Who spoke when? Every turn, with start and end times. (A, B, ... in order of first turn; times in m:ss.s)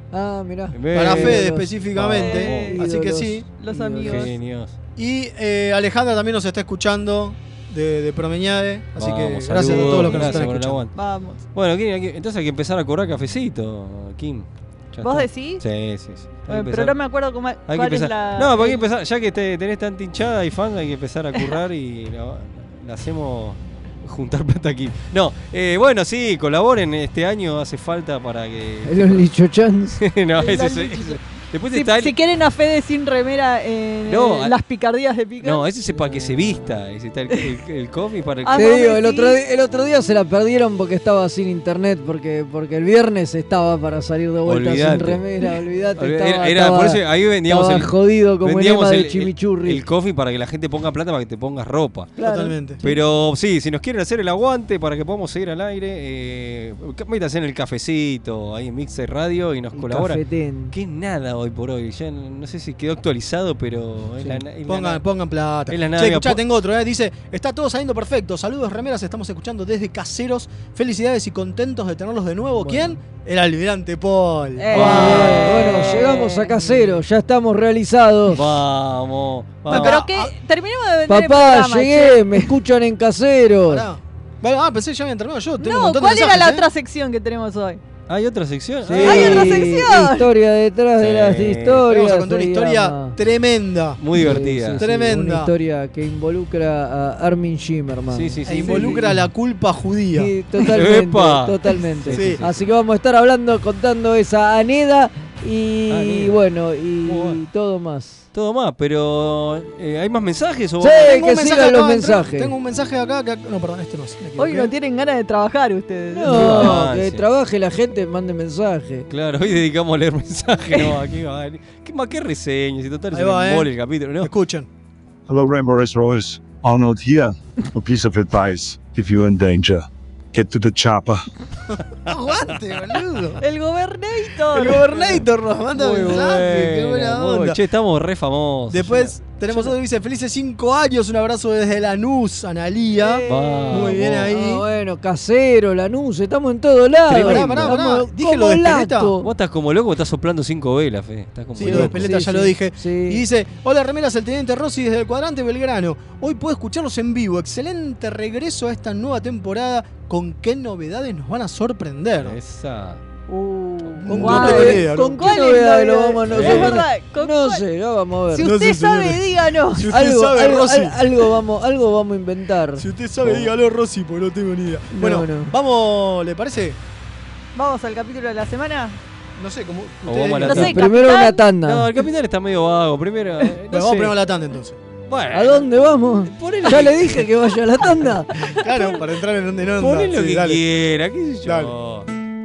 0:00.1-0:04.3 A
0:00.7-0:02.8 B
0:00.9-0:03.5 C
0:02.1-0:02.8 D
0:03.6-0:04.3 D
0:04.0-0:04.7 B
0:05.0-0:10.8 C
0:09.0-0:10.9 B
0:10.0-0:10.4 D
0:11.0-0:11.4 D
0:11.5-0:17.0 B
0:15.0-0:15.6 D
0:16.5-0:18.9 D
0:17.7-0:29.3 B
0:28.8-0:30.0 A
0:30.0-0:32.2 B
0:30.4-0:31.2 D
0:31.7-0:35.7 D
0:34.1-0:34.6 B
0:35.4-0:38.9 B
0:38.4-0:39.4 D
0:38.5-0:49.8 A
0:44.5-0:45.3 B
0:46.0-0:52.1 B
0:52.2-0:52.8 C
0:52.2-0:53.0 A
0:52.8-1:05.0 B
0:59.7-1:00.8 A
1:04.7-1:15.6 C
1:05.7-1:06.4 B
1:14.6-1:17.0 D
1:14.7-1:15.8 B
1:14.7-1:18.4 A
1:18.3-1:20.0 B
1:19.7-1:22.5 D
1:19.7-1:20.3 C
1:21.1-1:23.9 A
1:23.7-1:26.7 C
1:25.6-1:27.8 D
1:28.1-1:29.7 B
1:28.9-1:33.2 A
1:29.0-1:30.3 D
1:31.0-1:31.8 B
1:31.9-1:34.0 C
1:34.0-1:34.8 B
1:34.2-1:39.1 A
1:34.8-1:35.5 C
1:38.1-1:39.0 B
1:38.4-1:40.3 C
1:40.2-1:48.2 A
1:40.7-1:42.7 B
1:42.1-1:42.4 C
1:45.9-1:46.4 B
1:47.1-1:47.4 B
1:48.3-1:51.2 B
1:50.8-1:52.5 A
1:51.0-1:54.7 C
1:54.4-1:56.8 D
1:56.1-1:59.1 A
1:56.3-1:57.2 B
1:59.1-2:04.3 B
2:03.1-2:03.7 C
2:04.2-2:04.7 C
2:05.3-2:11.2 E
2:12.1-2:13.4 C
2:13.4-2:15.2 D
2:14.5-2:17.6 C
2:15.7-2:19.2 B
2:18.7-2:24.6 C
2:23.3-2:24.3 B
2:24.3-2:29.3 A
2:27.1-2:27.8 B
2:27.1-2:29.1 C
2:29.2-2:32.1 B
2:31.6-2:42.4 C
2:31.6-2:33.2 A
2:42.2-2:43.0 B
2:43.3-2:47.6 D
2:44.0-2:45.2 C
2:44.1-2:44.5 B
2:44.1-2:48.5 A
2:46.3-2:46.8 B
2:48.3-2:49.9 D
2:48.4-2:51.1 C
2:49.9-2:52.8 A
2:52.8-2:56.8 C
2:53.2-2:53.5 B
2:54.9-2:55.5 A
2:57.6-2:59.0 D
2:59.4-3:00.7 C
3:00.0-3:00.8 B
3:00.5-3:01.4 D
3:00.5-3:01.9 A
3:01.6-3:04.2 B
3:03.7-3:04.8 C
3:05.1-3:05.7 B
3:05.3-3:08.3 A
3:06.3-3:07.3 B
3:08.6-3:10.6 C
3:09.8-3:12.1 B
3:11.4-3:11.7 C